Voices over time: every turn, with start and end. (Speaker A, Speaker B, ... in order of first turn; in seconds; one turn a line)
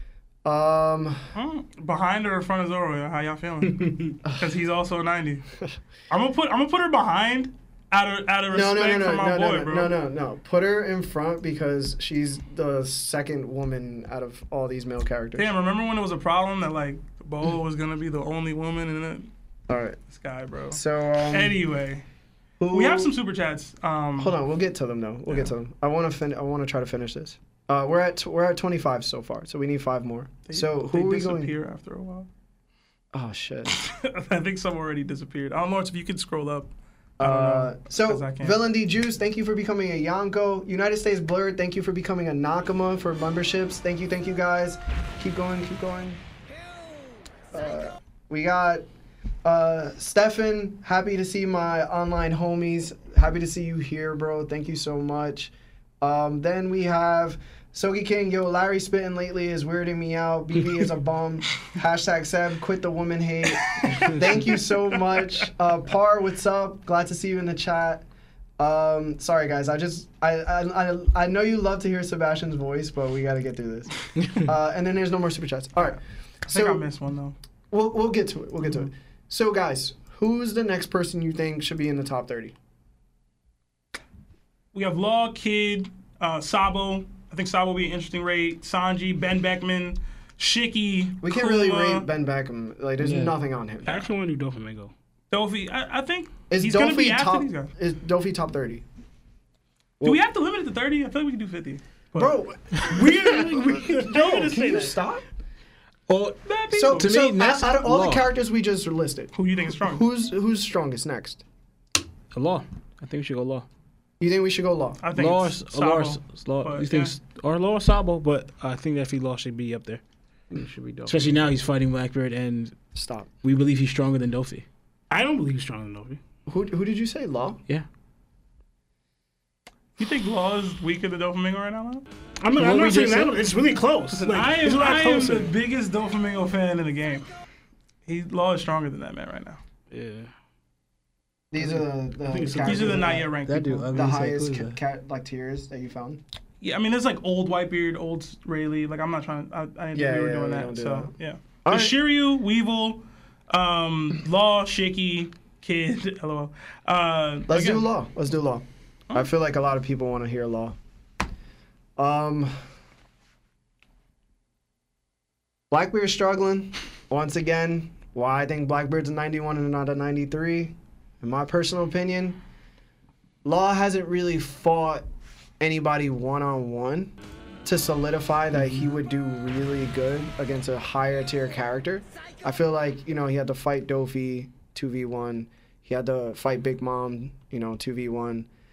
Speaker A: 0.5-1.3
Speaker B: 1.4-5.4
Speaker C: 3.6-4.1
Speaker B: 6.1-9.9
Speaker A: 8.5-15.5
Speaker B: 15.4-19.3
Speaker A: 19.7-20.0
Speaker B: 20.1-20.8
Speaker A: 20.7-21.6
Speaker B: 21.3-22.1
Speaker A: 22.6-23.1
Speaker B: 22.7-24.3
Speaker A: 24.2-31.5
Speaker B: 30.5-32.3
Speaker A: 33.1-33.7
Speaker B: 33.7-36.7
Speaker A: 37.2-46.2
Speaker B: 37.2-38.6
Speaker A: 47.5-48.9
Speaker A: 49.5-68.0
Speaker B: 63.8-64.1
Speaker A: 68.6-76.8
Speaker B: 76.5-77.3
Speaker A: 77.7-82.5
Speaker B: 84.7-92.1
Speaker A: 91.2-93.9
Speaker D: 93.0-93.3
Speaker C: 93.9-94.9
Speaker B: 95.3-97.7
Speaker A: 96.5-98.8
Speaker B: 100.0-102.4
Speaker A: 102.2-105.2
Speaker C: 102.8-105.0
Speaker D: 106.1-108.3
Speaker B: 106.5-107.1
Speaker A: 106.7-111.4
Speaker B: 109.3-110.1
Speaker D: 112.3-113.7
Speaker A: 114.2-115.0
Speaker B: 115.0-117.2
Speaker D: 115.1-120.0
Speaker C: 120.5-121.4
Speaker D: 121.1-122.8
Speaker A: 123.0-123.3
Speaker D: 123.4-124.7
Speaker C: 125.1-126.2
Speaker A: 126.5-127.6
Speaker B: 130.0-132.1
Speaker C: 132.4-135.5
Speaker D: 132.6-133.4
Speaker B: 134.1-137.3
Speaker B: 138.1-139.6
Speaker C: 139.9-140.3
Speaker A: 141.5-143.3
Speaker C: 141.6-143.2
Speaker B: 142.6-143.9
Speaker D: 143.4-144.8
Speaker A: 143.9-146.2
Speaker B: 146.6-157.9
Speaker A: 149.9-151.1
Speaker A: 151.7-151.9
Speaker A: 157.5-160.8
Speaker A: 162.0-162.5
Speaker A: 165.7-172.4
Speaker A: 173.4-175.1
Speaker A: 175.6-177.1
Speaker A: 177.7-188.5